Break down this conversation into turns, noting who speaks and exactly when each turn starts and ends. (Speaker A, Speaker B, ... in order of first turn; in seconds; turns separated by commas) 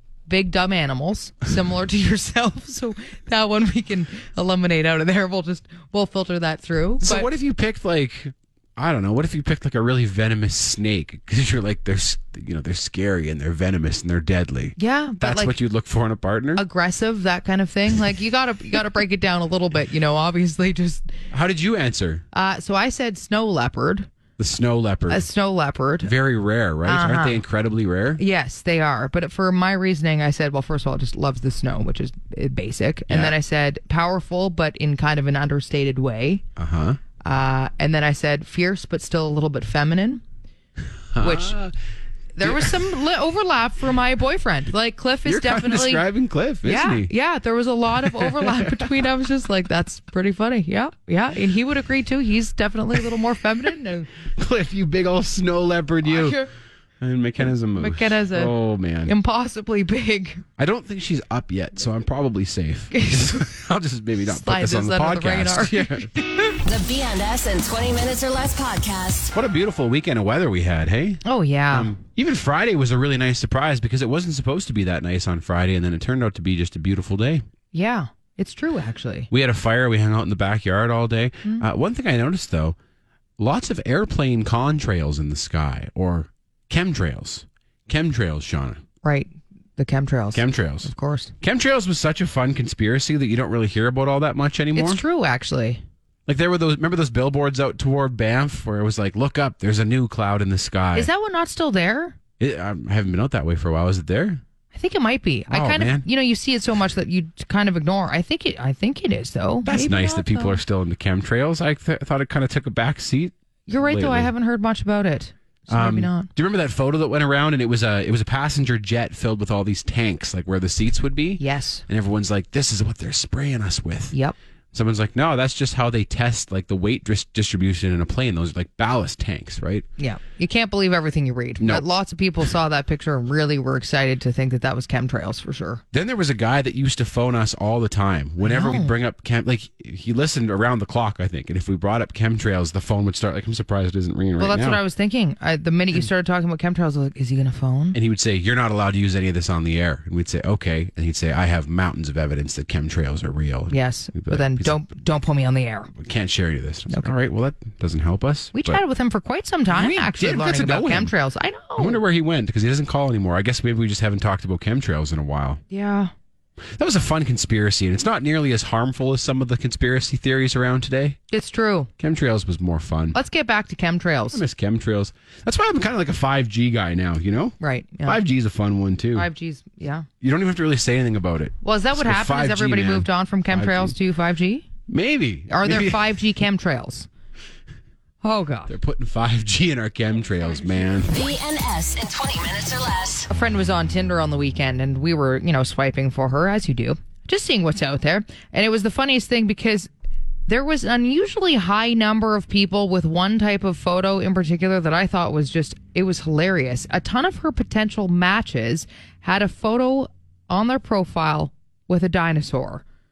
Speaker A: 0.3-7.3, Speaker B: 7.0-16.6, Speaker A: 14.8-15.6, Speaker A: 16.6-21.1, Speaker B: 21.3-22.2, Speaker A: 22.3-24.1, Speaker B: 24.4-25.2, Speaker A: 25.1-26.1, Speaker B: 26.0-28.2, Speaker A: 26.9-27.4, Speaker A: 28.2-36.4, Speaker B: 33.1-33.4, Speaker B: 36.6-37.0, Speaker A: 37.2-40.2, Speaker B: 41.1-41.7, Speaker A: 41.2-41.6, Speaker A: 42.4-46.1, Speaker B: 42.4-42.7, Speaker B: 45.3-47.1, Speaker A: 46.6-54.1, Speaker B: 48.1-48.7, Speaker B: 54.4-56.4, Speaker A: 56.0-56.5, Speaker B: 57.0-59.1, Speaker A: 57.5-60.4, Speaker B: 60.6-66.1, Speaker A: 62.9-63.4, Speaker A: 64.3-66.6, Speaker C: 66.7-69.3, Speaker B: 69.3-77.5, Speaker A: 71.2-71.9, Speaker A: 77.7-79.3, Speaker B: 79.3-82.8, Speaker B: 83.4-88.8, Speaker A: 89.0-91.3, Speaker B: 90.3-90.9, Speaker B: 91.4-95.0, Speaker A: 94.8-95.8, Speaker B: 96.3-101.1, Speaker A: 101.0-102.2, Speaker B: 102.4-104.4, Speaker A: 104.7-110.6, Speaker B: 105.5-106.1, Speaker B: 109.7-114.3, Speaker A: 113.7-116.3, Speaker B: 115.7-124.1, Speaker A: 121.4-121.8, Speaker B: 124.7-129.9, Speaker A: 130.0-135.8, Speaker B: 131.6-131.8, Speaker B: 135.9-144.8, Speaker A: 138.4-138.9, Speaker A: 144.4-148.0, Speaker B: 147.9-154.8, Speaker A: 153.7-155.9, Speaker B: 156.0-158.8, Speaker A: 158.6-162.0, Speaker B: 159.7-161.1, Speaker B: 161.8-165.6, Speaker A: 165.7-166.1, Speaker B: 166.8-171.2, Speaker A: 171.3-171.9, Speaker B: 172.0-173.2, Speaker A: 173.1-174.4, Speaker B: 174.3-179.3, Speaker A: 177.6-178.2, Speaker A: 179.2-180.1, Speaker B: 180.2-183.9, Speaker A: 181.6-184.7, Speaker B: 184.9-186.1, Speaker A: 185.5-187.1, Speaker A: 188.2-188.7, Speaker B: 188.7-191.1, Speaker A: 190.4-191.1, Speaker C: 191.1-193.3, Speaker A: 193.3-199.9, Speaker A: 200.5-212.8